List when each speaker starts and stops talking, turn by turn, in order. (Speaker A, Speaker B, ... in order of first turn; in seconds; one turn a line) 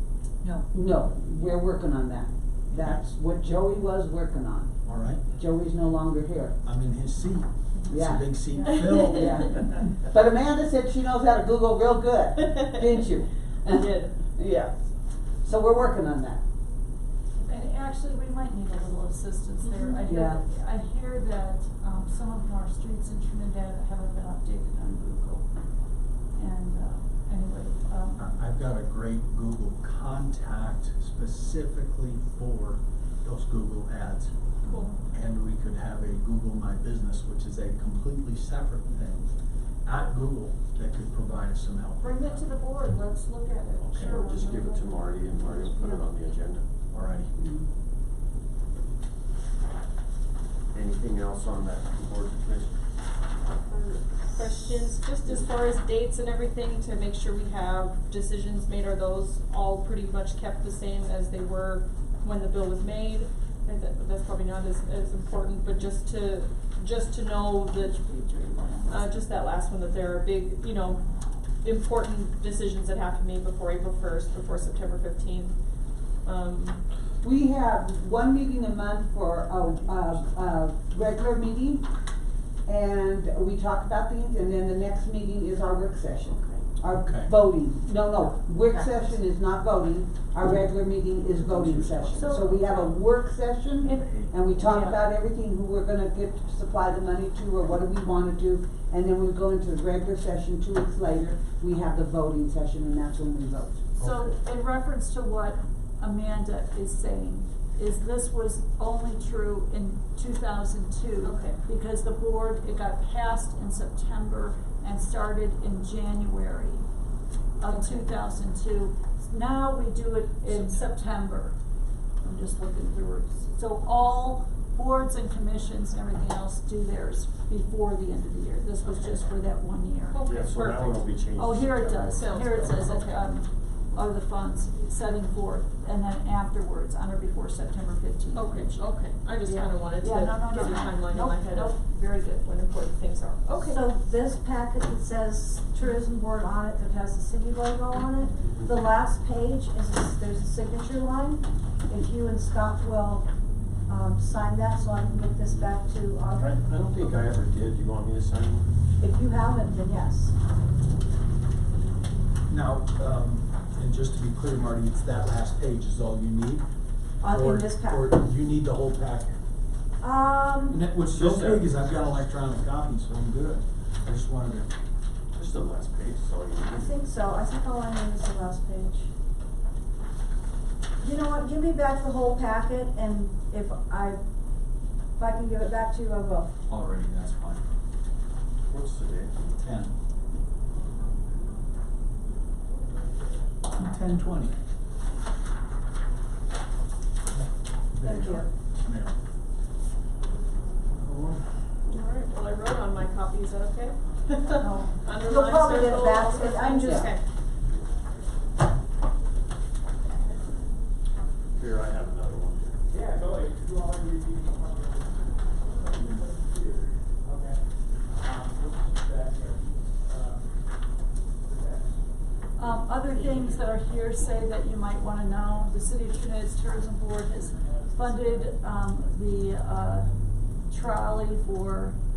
Speaker A: 0.7-4.7
Speaker B: 2.8-3.0
Speaker B: 4.8-5.3
Speaker A: 5.3-6.6
Speaker B: 6.6-9.5
Speaker A: 7.9-14.7
Speaker C: 12.4-12.8
Speaker C: 13.7-14.1
Speaker A: 15.4-16.4
Speaker D: 17.4-25.4
Speaker C: 19.6-20.0
Speaker A: 20.1-20.4
Speaker D: 26.4-28.3
Speaker B: 28.2-34.3
Speaker C: 34.6-34.9
Speaker D: 34.6-35.0
Speaker B: 35.0-39.3
Speaker B: 39.8-42.4
Speaker D: 42.0-46.0
Speaker E: 43.8-46.9
Speaker B: 46.9-47.3
Speaker A: 47.4-47.6
Speaker E: 50.7-52.8
Speaker C: 53.7-68.0
Speaker E: 55.2-55.5
Speaker D: 67.8-69.2
Speaker C: 68.8-71.0
Speaker C: 71.6-75.5
Speaker C: 76.2-76.8
Speaker A: 77.2-81.8
Speaker A: 82.7-103.9
Speaker C: 86.3-86.6
Speaker B: 87.0-87.3
Speaker B: 91.5-92.4
Speaker D: 92.1-93.0
Speaker D: 93.8-95.0
Speaker D: 104.0-116.8
Speaker B: 104.0-104.3
Speaker C: 111.2-111.6
Speaker D: 117.6-121.5
Speaker C: 117.7-118.1
Speaker D: 122.2-130.2
Speaker C: 130.1-131.0
Speaker E: 130.2-132.7
Speaker D: 131.4-138.8
Speaker C: 132.1-133.3
Speaker C: 138.3-141.8
Speaker D: 139.4-142.6
Speaker C: 142.4-143.9
Speaker F: 143.6-153.2
Speaker F: 153.9-156.5
Speaker E: 156.3-158.7
Speaker F: 159.0-160.3
Speaker B: 162.5-166.6
Speaker F: 167.2-168.1
Speaker B: 167.2-169.3
Speaker F: 170.0-170.8
Speaker B: 170.7-174.7
Speaker E: 171.0-171.7
Speaker E: 175.3-177.0
Speaker F: 176.7-179.1
Speaker F: 181.0-184.2
Speaker F: 185.2-186.5
Speaker B: 186.7-187.6
Speaker E: 188.7-189.4
Speaker B: 189.6-189.9
Speaker B: 193.7-194.5
Speaker B: 198.0-199.2
Speaker F: 198.0-198.5
Speaker B: 201.0-201.4
Speaker C: 201.8-207.2
Speaker F: 204.6-207.0
Speaker A: 206.7-207.1
Speaker E: 211.5-212.8
Speaker G: 212.9-220.6
Speaker G: 221.4-224.4
Speaker D: 222.6-230.1
Speaker G: 227.3-229.2
Speaker D: 230.7-232.0